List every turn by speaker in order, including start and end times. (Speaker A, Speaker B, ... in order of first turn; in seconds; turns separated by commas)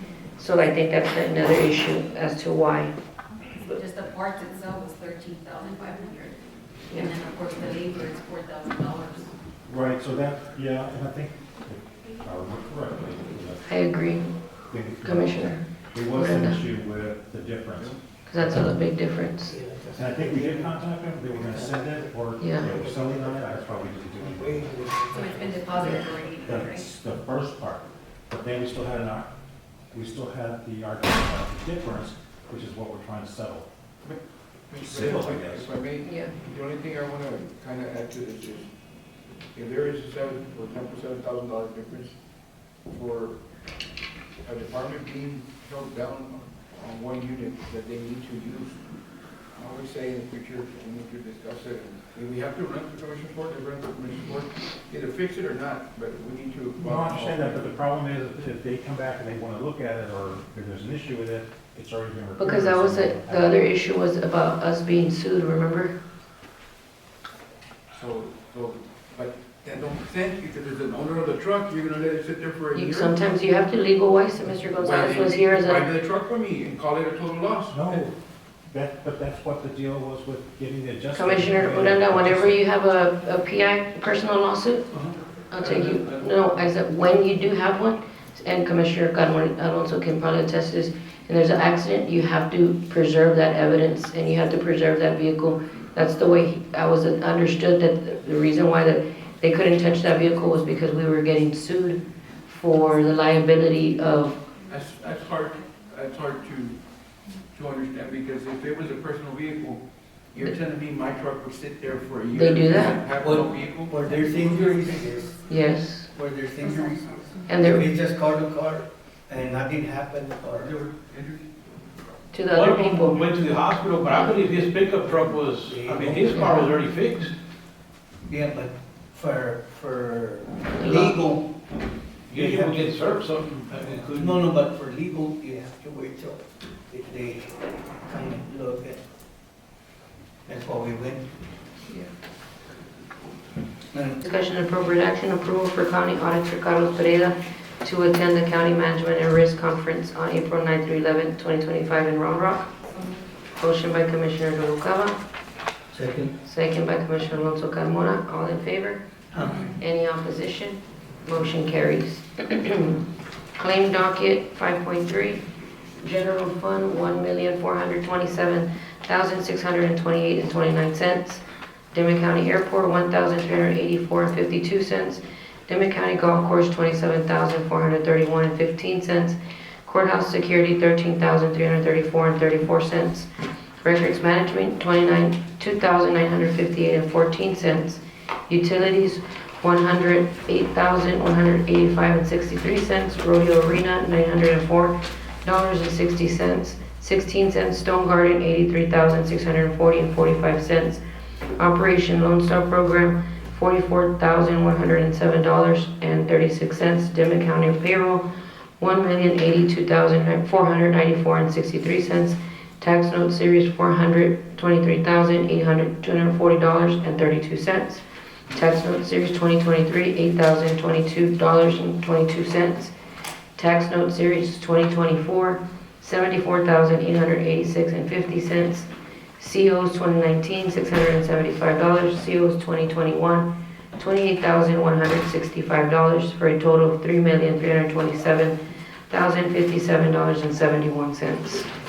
Speaker A: 0.4-2.9, Speaker B: 3.6-9.3, Speaker C: 9.7-13.7, Speaker A: 13.7-14.3, Speaker C: 14.7-18.7, Speaker A: 15.0-16.6, Speaker A: 18.3-19.6, Speaker D: 19.5-20.8, Speaker C: 19.9-24.8, Speaker D: 21.3-25.9, Speaker A: 22.4-22.7, Speaker B: 25.1-26.9, Speaker C: 26.4-29.3, Speaker C: 29.9-33.7, Speaker E: 34.7-38.7, Speaker C: 34.7-35.7, Speaker A: 36.0-36.3, Speaker E: 39.5-42.1, Speaker E: 42.9-43.4, Speaker E: 44.4-48.8, Speaker E: 49.6-57.8, Speaker C: 56.8-63.5, Speaker A: 62.4-65.9, Speaker E: 67.9-73.1, Speaker A: 72.8-75.9, Speaker E: 74.8-78.0, Speaker C: 77.7-78.2, Speaker C: 78.7-82.6, Speaker A: 81.1-84.9, Speaker E: 84.9-86.5, Speaker A: 85.5-104.3, Speaker B: 103.2-103.6, Speaker E: 104.7-106.8, Speaker E: 107.5-114.7, Speaker A: 112.3-113.0, Speaker D: 113.2-115.4, Speaker B: 114.0-115.5, Speaker A: 115.5-116.1, Speaker D: 116.1-120.8, Speaker B: 116.6-117.5, Speaker A: 117.5-117.8, Speaker E: 120.5-121.5, Speaker A: 122.3-123.2, Speaker F: 122.5-127.3, Speaker D: 125.1-126.7, Speaker A: 126.3-126.7, Speaker D: 128.3-131.6, Speaker A: 130.8-131.2, Speaker F: 132.3-134.4, Speaker D: 132.3-133.1, Speaker D: 133.7-139.0, Speaker D: 140.5-141.3, Speaker D: 143.9-144.2, Speaker A: 144.2-152.7, Speaker B: 152.8-153.2, Speaker A: 153.6-155.2, Speaker D: 155.9-156.3, Speaker A: 156.4-159.0, Speaker D: 159.3-159.7, Speaker B: 159.4-159.8, Speaker A: 159.8-163.0, Speaker A: 163.6-165.4, Speaker A: 166.0-171.4, Speaker A: 171.9-183.3, Speaker A: 183.8-201.0, Speaker A: 201.6-208.2, Speaker A: 208.8-222.9, Speaker A: 223.6-238.6, Speaker A: 239.1-241.7